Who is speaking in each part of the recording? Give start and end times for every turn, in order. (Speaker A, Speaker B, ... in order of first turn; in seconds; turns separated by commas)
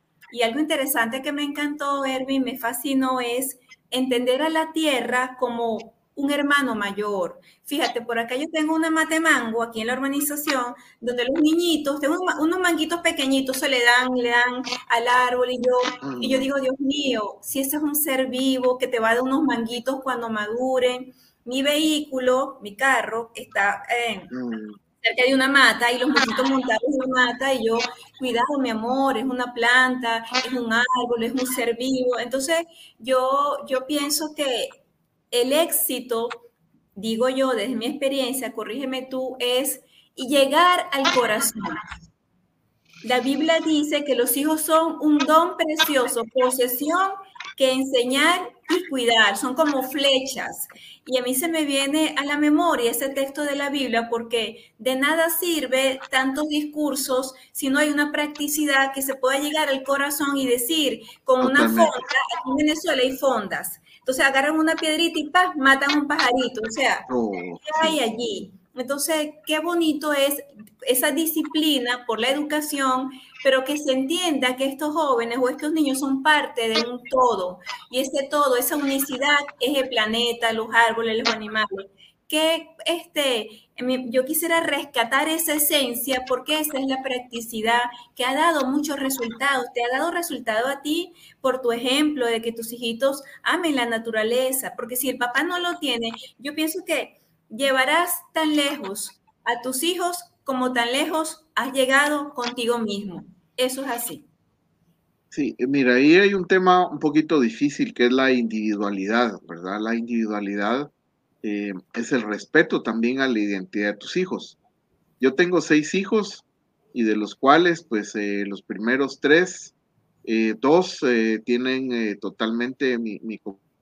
Speaker A: 0.3-24.3, Speaker B: 16.0-16.5, Speaker B: 24.3-24.8, Speaker A: 25.0-36.4, Speaker A: 37.0-41.8, Speaker A: 43.0-67.1, Speaker B: 61.4-62.0, Speaker B: 67.1-68.0, Speaker A: 67.6-104.2, Speaker B: 105.3-110.9, Speaker B: 111.4-114.6, Speaker B: 115.2-119.7, Speaker B: 120.2-123.6